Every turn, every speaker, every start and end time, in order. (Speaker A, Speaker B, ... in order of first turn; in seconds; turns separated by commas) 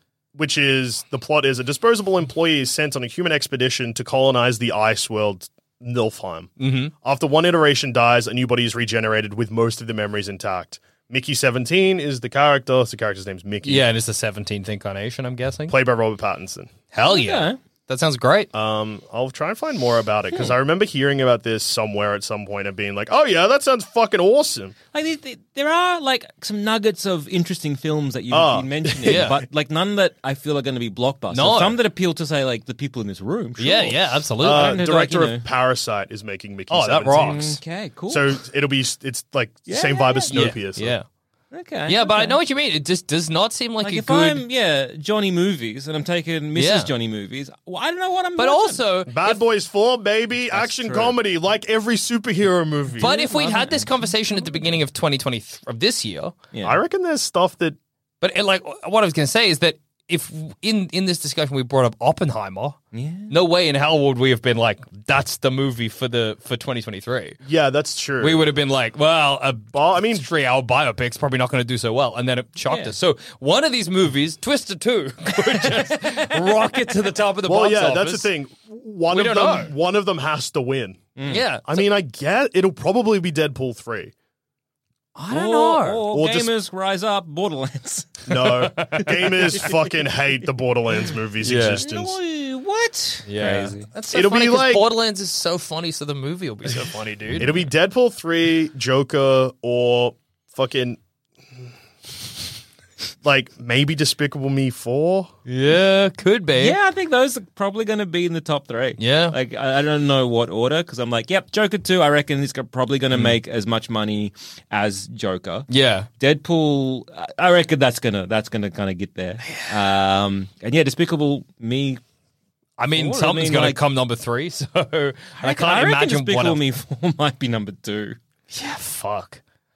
Speaker A: 0.3-6.5, Speaker B: 6.6-6.9, Speaker A: 7.0-13.9, Speaker B: 13.6-15.8, Speaker A: 15.7-16.7, Speaker B: 16.9-18.5, Speaker C: 17.1-17.6, Speaker A: 18.5-24.8, Speaker C: 24.9-35.5, Speaker A: 28.3-29.4, Speaker B: 29.0-29.4, Speaker B: 31.3-31.8, Speaker B: 33.6-34.8, Speaker A: 34.4-37.6, Speaker B: 36.7-37.6, Speaker C: 37.2-38.3, Speaker A: 38.1-41.0, Speaker C: 39.7-40.4, Speaker B: 40.3-41.1, Speaker C: 41.5-42.4, Speaker B: 41.9-44.4, Speaker C: 43.8-48.8, Speaker B: 46.5-46.9, Speaker B: 48.4-49.4, Speaker A: 49.1-53.2, Speaker C: 50.5-51.2, Speaker C: 53.0-53.9, Speaker B: 53.0-56.4, Speaker A: 56.6-57.8, Speaker B: 58.2-62.8, Speaker C: 62.9-63.3, Speaker B: 63.3-67.4, Speaker A: 67.4-68.5, Speaker B: 68.2-78.3, Speaker A: 69.7-70.3, Speaker C: 72.7-72.9, Speaker A: 77.5-81.0, Speaker B: 79.1-79.7, Speaker C: 81.2-81.4, Speaker B: 81.3-81.8, Speaker A: 81.7-84.1, Speaker B: 85.2-86.1, Speaker C: 85.3-88.5, Speaker A: 86.1-86.5, Speaker A: 88.3-92.2, Speaker B: 88.6-89.2, Speaker C: 89.3-89.7, Speaker B: 91.4-91.8, Speaker C: 91.8-93.9, Speaker B: 93.3-97.5, Speaker A: 94.1-94.9, Speaker A: 97.3-101.0, Speaker A: 103.2-105.3, Speaker B: 105.5-106.8, Speaker C: 106.6-115.7, Speaker B: 109.0-109.4, Speaker B: 113.1-113.4, Speaker B: 115.7-116.1, Speaker C: 116.2-122.0, Speaker B: 122.8-126.6, Speaker C: 122.9-123.8, Speaker C: 125.4-128.2, Speaker B: 128.5-129.4